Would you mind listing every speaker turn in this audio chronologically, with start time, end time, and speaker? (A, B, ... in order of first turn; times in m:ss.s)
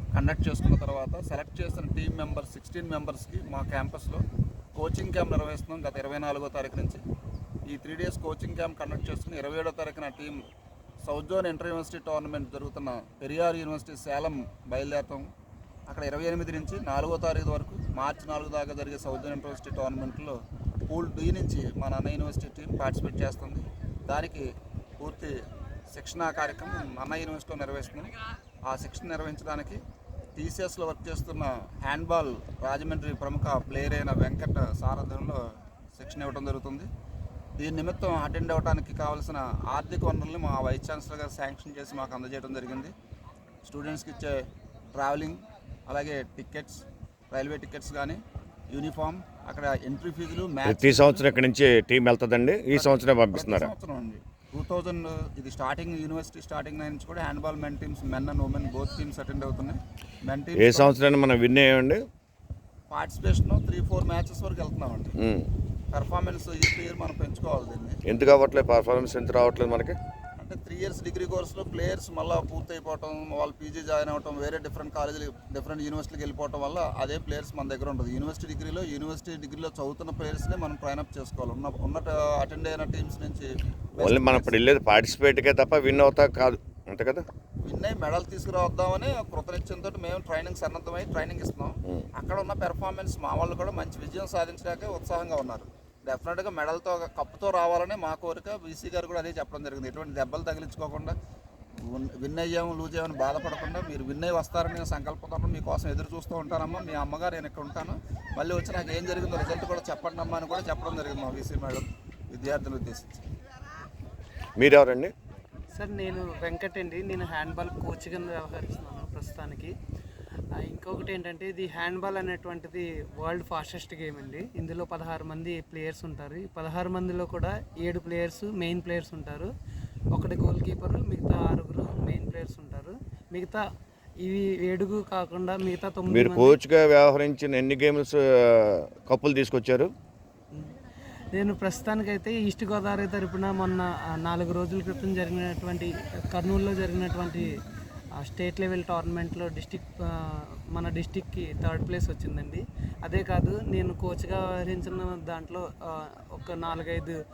0:00.1-0:04.2 A
0:04.8-0:07.0 A
0:07.7-0:10.4 A
0:11.0-0:15.3 A
0:15.9-0:20.4 A
0:20.9-0:24.5 A
0:25.0-0:25.4 A
0:25.9-0:28.1 A
0:28.7-0:29.8 A
0:30.4-0:35.4 A
0:35.9-0:36.9 A
0:37.6-0:42.9 A
0:43.6-0:44.4 A
0:44.9-0:48.2 A
0:48.7-0:51.2 A
0:50.6-0:53.7 B
0:52.7-1:01.0 A
1:00.6-1:02.0 B
1:02.9-1:05.2 A
1:05.2-1:05.5 B
1:05.9-1:08.0 A
1:08.1-1:10.0 B
1:10.4-1:24.6 A
1:24.0-1:27.2 B
1:27.6-1:41.2 A
1:41.8-1:53.2 A
1:54.6-1:55.1 B
1:55.8-1:59.7 C
2:00.6-2:09.5 C
2:10.1-2:13.6 C
2:14.2-2:16.6 C
2:16.1-2:19.9 B
2:21.3-2:27.6 C
2:28.2-2:37.2 C